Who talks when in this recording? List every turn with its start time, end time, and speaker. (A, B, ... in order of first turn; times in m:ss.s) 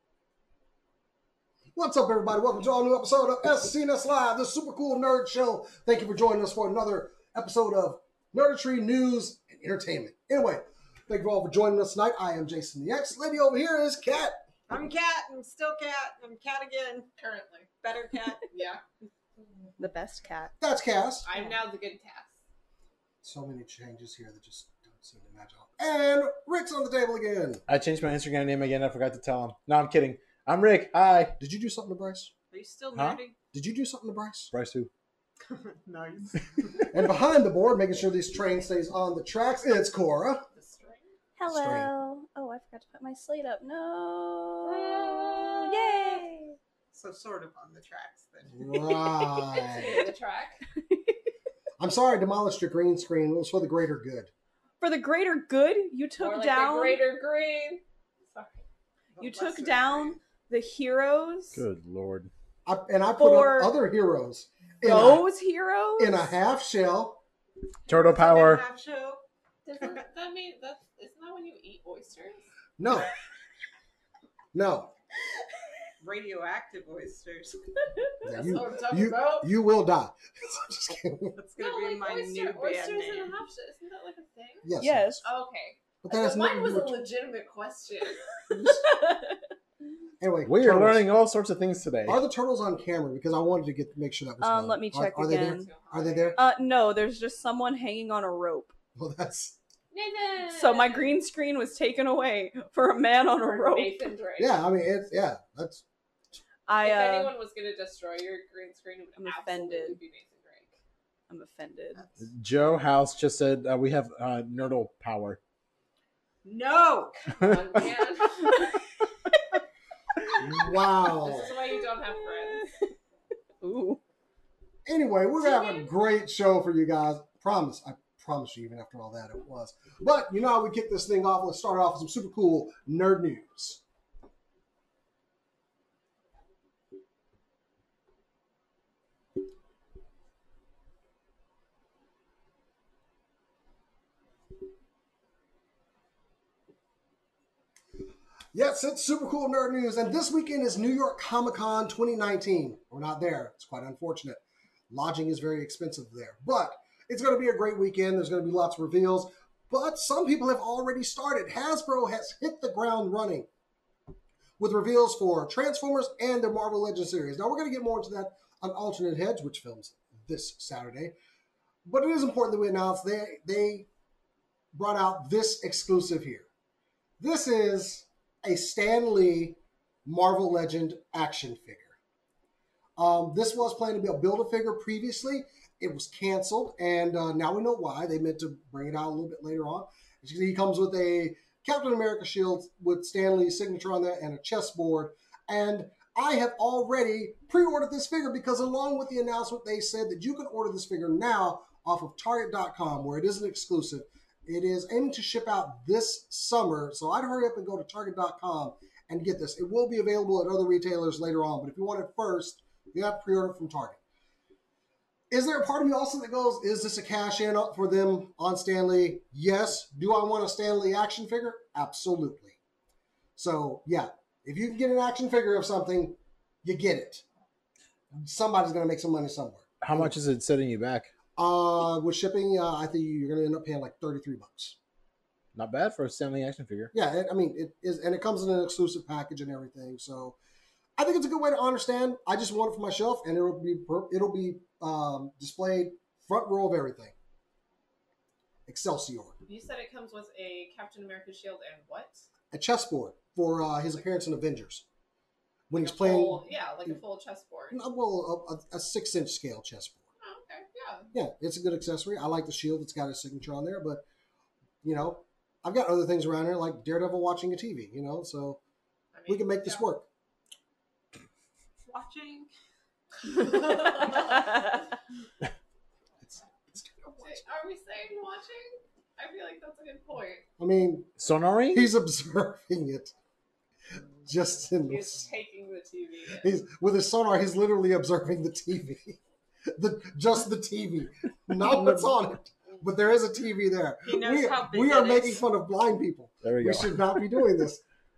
0:01.7-0:14.4 A
0:14.7-0:17.1 B
0:17.2-0:17.7 C
0:17.8-0:18.5 B
0:18.5-0:18.8 C
0:19.8-0:20.5 D
0:20.6-0:21.3 A
0:21.2-0:22.4 C
0:21.3-0:21.6 B
0:23.2-0:27.6 A
0:27.7-0:31.4 E
0:31.4-0:32.3 A
0:32.5-0:33.4 B
0:32.9-0:33.2 E
0:33.5-0:34.5 A
0:34.5-0:34.9 E
0:35.4-0:36.9 B
0:36.9-0:40.5 A
0:40.5-0:41.1 C
0:41.4-0:46.6 D
0:41.5-0:41.9 A
0:44.6-0:46.2 B
0:44.8-0:45.5 C
0:46.9-0:49.1 B
0:48.5-0:50.0 A
0:49.2-0:50.6 C
0:51.8-0:54.3 A
0:54.8-0:57.0 D
0:56.2-0:58.6 C
0:59.2-1:00.2 B
0:59.2-1:01.6 D
1:01.5-1:02.3 E
1:02.6-1:05.2 A
1:03.2-1:03.7 D
1:04.8-1:06.3 D
1:06.0-1:07.2 A
1:07.8-1:09.2 B
1:07.9-1:08.6 E
1:09.6-1:12.4 C
1:12.8-1:13.1 A
1:14.5-1:14.9 A
1:16.0-1:17.6 B
1:18.2-1:21.4 A
1:18.3-1:19.5 C
1:21.4-1:23.3 B
1:21.6-1:24.7 C
1:24.6-1:25.2 A
1:24.8-1:25.2 D
1:25.2-1:28.2 C
1:26.0-1:27.0 A
1:28.5-1:28.8 A
1:28.8-1:29.4 D
1:30.2-1:31.0 A
1:30.4-1:32.2 E
1:32.0-1:36.4 A
1:34.4-1:35.7 D
1:35.2-1:36.4 C
1:36.4-1:38.7 D
1:39.0-1:39.6 A
1:39.9-1:41.1 C
1:40.5-1:44.0 D
1:43.6-1:44.6 C
1:44.4-1:45.8 A
1:46.7-1:47.3 D
1:46.8-1:50.8 C
1:49.2-1:50.0 D
1:51.3-1:52.0 D
1:51.9-1:52.2 B
1:52.2-1:55.4 E
1:56.4-1:57.2 B
1:57.4-1:58.8 C
2:00.4-2:01.5 A
2:01.2-2:02.7 C
2:03.6-2:04.0 D
2:04.8-2:13.8 A
2:05.4-2:05.9 C
2:28.5-2:43.5 A
2:44.6-2:51.1 A
2:51.8-2:53.9 A
2:54.7-2:56.5 A
2:57.2-3:02.0 A
3:03.0-3:34.0 A
3:35.3-3:42.6 A
3:43.4-3:47.2 A
3:48.2-3:50.1 A
3:49.8-3:51.1 E
3:51.4-3:54.8 A
3:55.5-3:56.9 E
3:56.9-4:00.4 A
4:01.0-4:07.1 A
4:08.7-4:09.4 A
4:09.4-4:12.2 C
4:12.5-4:14.8 A
4:15.7-4:17.0 A
4:15.8-4:17.8 C
4:17.7-4:20.0 A
4:20.2-4:21.1 C
4:21.1-4:24.0 A
4:24.8-4:28.6 A
4:29.1-4:29.8 C
4:29.3-4:30.0 A
4:31.8-4:32.5 B
4:33.5-4:34.1 B
4:33.6-4:34.1 C
4:36.2-4:37.4 A
4:37.2-4:40.4 C
4:40.6-4:41.2 A
4:41.2-4:41.9 E
4:41.7-4:43.1 A
4:44.2-4:45.2 A
4:44.8-4:46.5 C
4:46.4-4:49.2 A
4:49.8-4:57.8 A
4:51.6-4:52.2 E
4:54.0-4:55.4 B
4:56.4-4:57.2 E